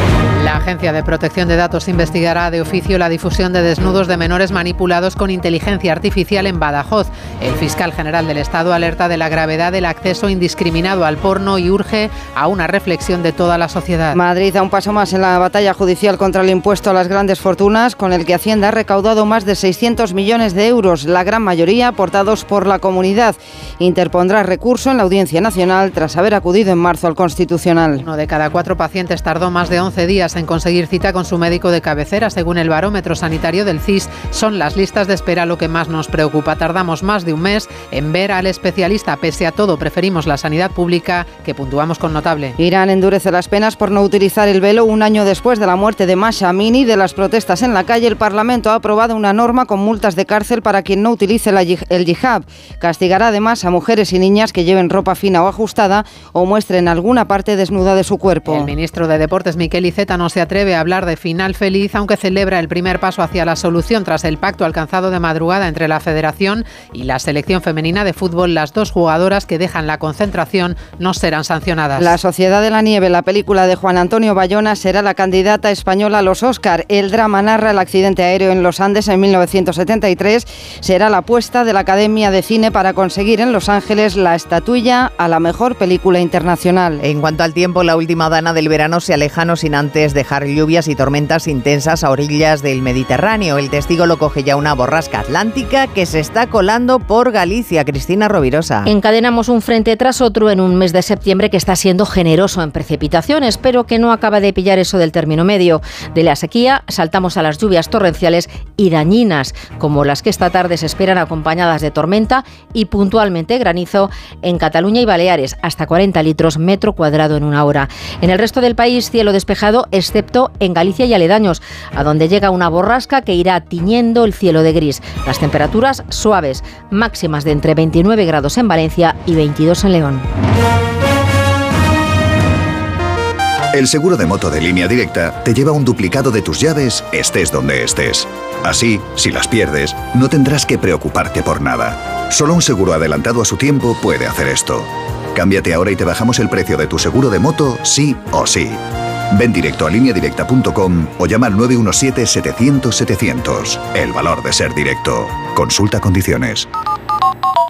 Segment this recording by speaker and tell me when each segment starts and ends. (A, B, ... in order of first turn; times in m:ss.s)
0:00.4-0:14.2 A
0:14.1-0:28.0 B
0:28.0-0:42.5 A
0:42.6-0:58.7 B
0:58.5-1:12.1 A
1:12.0-1:27.0 B
1:27.0-1:38.9 C
1:38.8-2:10.2 D
2:13.7-2:28.8 E
2:29.3-2:36.7 E